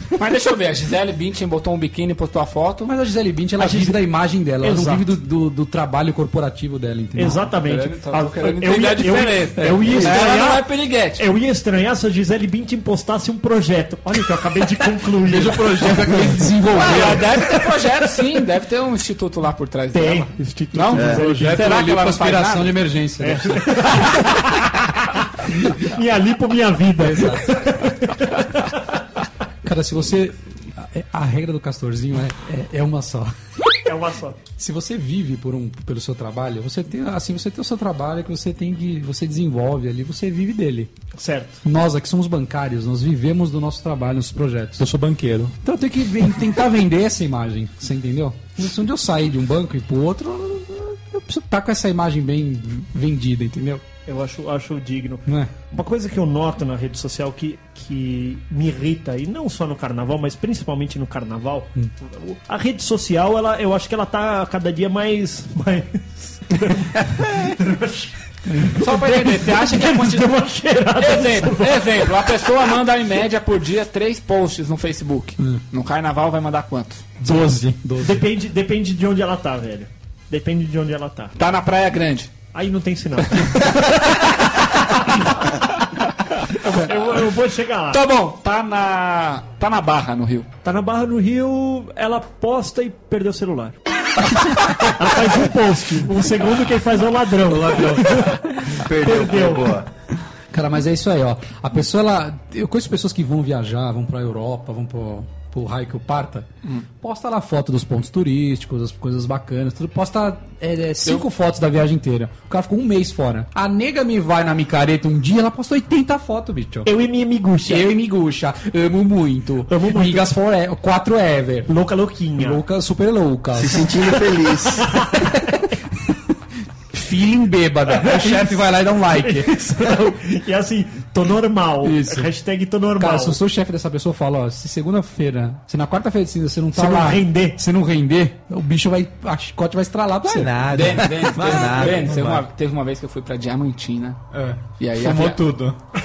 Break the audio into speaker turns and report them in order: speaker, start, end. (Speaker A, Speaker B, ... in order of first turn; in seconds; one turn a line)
Speaker A: 0.2-2.9
Speaker B: 2.9-7.5
Speaker C: 3.6-4.1
Speaker C: 4.6-5.1
Speaker C: 7.2-17.7
Speaker A: 7.6-11.2
Speaker B: 9.6-10.1
Speaker B: 15.2-17.4
Speaker A: 16.7-22.8
Speaker C: 19.9-21.7
Speaker D: 20.9-21.2
Speaker B: 21.0-24.1
Speaker C: 23.2-28.8
Speaker B: 27.1-27.5
Speaker B: 29.6-33.3
Speaker C: 33.9-34.4
Speaker B: 34.6-40.9
Speaker C: 41.2-41.6
Speaker B: 41.6-44.8
Speaker E: 44.8-45.5
Speaker B: 45.6-53.8
Speaker C: 54.1-72.3
Speaker B: 55.3-55.5
Speaker B: 68.5-68.8
Speaker A: 68.8-77.1
Speaker E: 77.2-77.8
Speaker B: 77.8-78.3
Speaker C: 78.0-81.3
Speaker A: 81.4-82.3
Speaker C: 82.5-85.5
Speaker A: 86.6-87.3
Speaker C: 86.6-88.0
Speaker A: 87.9-90.5
Speaker C: 90.6-93.8
Speaker C: 94.7-99.8
Speaker B: 97.5-98.3
Speaker D: 98.7-99.9
Speaker B: 100.5-106.5
Speaker B: 107.0-116.9
Speaker C: 116.8-117.9
Speaker B: 117.7-121.7
Speaker C: 119.7-120.3
Speaker C: 121.7-122.6
Speaker B: 122.4-124.0
Speaker D: 123.6-125.0
Speaker C: 124.8-125.7
Speaker B: 125.2-125.6
Speaker B: 126.9-129.6
Speaker C: 127.9-133.4
Speaker B: 131.8-132.3
Speaker B: 133.0-141.9
Speaker C: 136.7-137.6
Speaker E: 140.3-142.5
Speaker A: 140.7-144.2
Speaker E: 144.3-145.8
Speaker A: 144.8-145.4